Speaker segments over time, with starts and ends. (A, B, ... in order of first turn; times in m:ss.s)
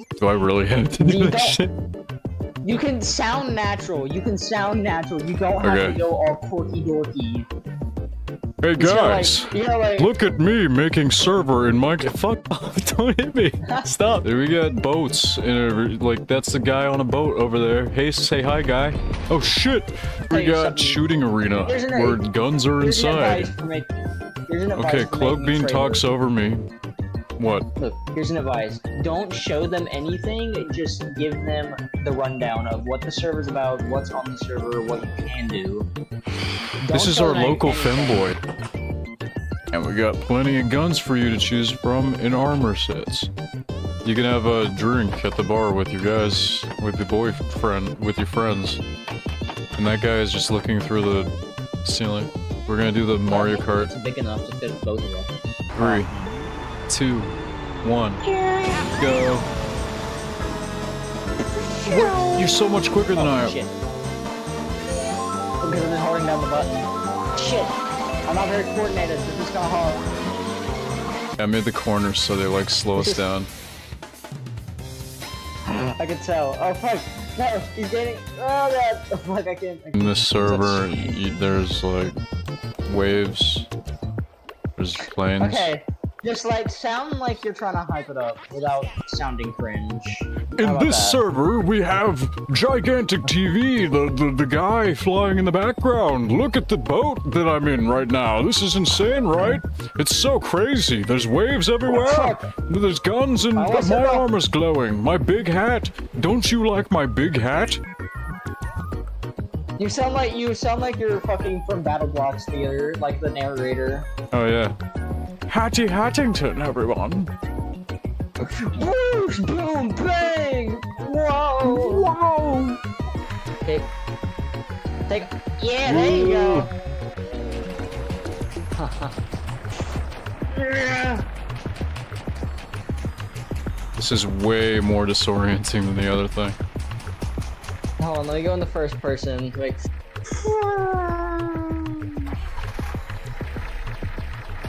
0:00.2-0:01.7 A
0:01.0-0:01.6 B
0:02.6-0:07.5 B
0:05.6-0:06.0 A
0:08.6-0:23.5 A
0:08.8-0:10.2 B
0:13.7-0:14.0 B
0:20.3-0:21.0 B
0:21.6-0:22.2 B
0:22.8-0:23.9 B
0:24.5-0:26.0 B
0:24.8-0:26.6 A
0:27.4-0:27.7 A
0:27.8-0:35.9 B
0:36.8-0:38.3 B
0:36.9-0:38.4 A
0:39.7-0:43.3 A
0:44.0-0:48.8 A
0:49.8-0:51.3 A
0:51.8-0:53.9 A
0:53.3-0:56.5 B
0:55.8-0:56.1 A
0:56.9-0:58.2 A
0:58.2-0:59.0 B
0:59.0-0:59.4 A
1:01.7-1:02.5 B
1:01.8-1:03.6 A
1:03.2-1:03.8 B
1:05.6-1:06.8 B
1:07.4-1:07.8 B
1:08.3-1:10.0 B
1:11.4-1:13.5 A
1:13.0-1:13.3 B
1:16.0-1:21.2 B
1:20.0-1:22.2 A
1:22.9-1:23.7 A
1:24.8-1:25.7 A
1:25.4-1:31.2 B
1:30.6-1:47.8 A
1:41.9-1:42.5 B
1:43.6-1:44.3 B
1:49.8-1:54.1 B
1:54.3-1:54.8 A
1:55.5-1:57.3 A
1:58.4-2:02.1 B
2:01.6-2:02.8 A
2:05.1-2:06.7 B
2:05.9-2:06.7 A
2:08.8-2:09.1 B
2:10.5-2:11.2 B
2:14.0-2:16.6 A
2:18.0-2:19.8 B
2:20.4-2:22.1 B